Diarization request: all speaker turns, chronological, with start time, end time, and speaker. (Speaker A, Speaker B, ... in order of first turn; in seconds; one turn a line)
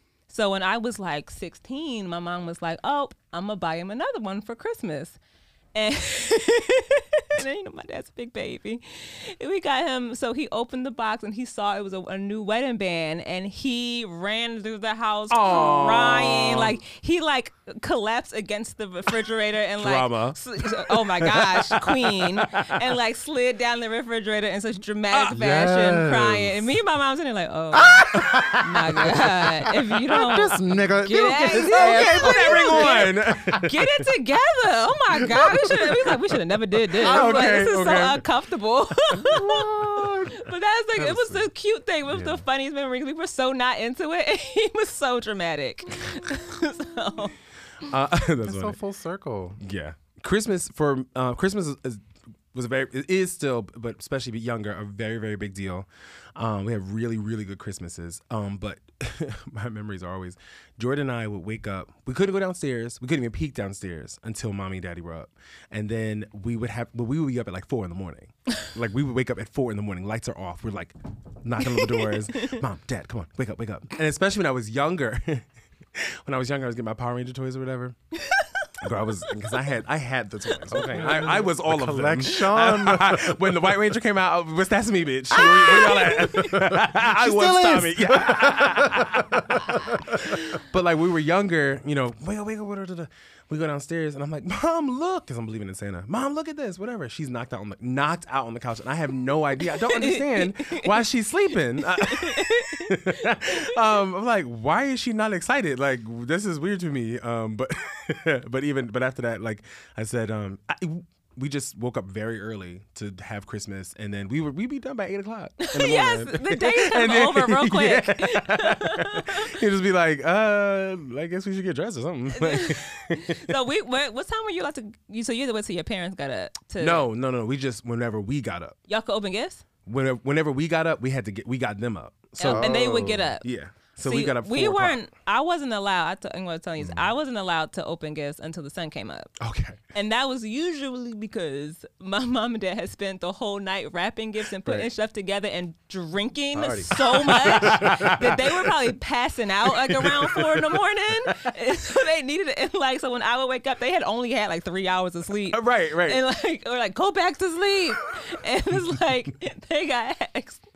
Speaker A: 0.3-5.2
Speaker A: 5.7-47.3
Speaker B: 15.3-16.8
Speaker B: 19.8-22.9
Speaker C: 25.3-26.6
Speaker C: 27.7-33.5
Speaker B: 31.5-34.1
Speaker C: 35.3-36.1
Speaker B: 35.3-35.7
Speaker B: 36.9-38.2
Speaker C: 37.0-37.7
Speaker C: 39.2-41.5
Speaker C: 42.1-42.4
Speaker B: 47.8-48.8
Speaker C: 48.4-49.6
Speaker B: 49.6-78.0
Speaker A: 71.6-72.6
Speaker A: 78.2-79.6
Speaker B: 78.8-123.5
Speaker A: 80.5-81.0
Speaker C: 80.7-83.5
Speaker A: 85.3-86.7
Speaker C: 85.3-90.6
Speaker A: 99.7-101.0
Speaker A: 102.0-103.8
Speaker A: 115.6-119.5
Speaker A: 122.3-127.1
Speaker B: 126.8-128.8
Speaker A: 128.9-129.6
Speaker B: 129.8-132.8
Speaker A: 132.4-133.4
Speaker C: 132.4-133.3
Speaker B: 133.4-135.0
Speaker A: 134.0-139.3
Speaker C: 136.8-137.1
Speaker B: 139.4-139.8
Speaker A: 139.9-160.6
Speaker C: 146.5-148.3
Speaker B: 147.1-148.8
Speaker B: 149.7-151.5
Speaker B: 155.5-156.2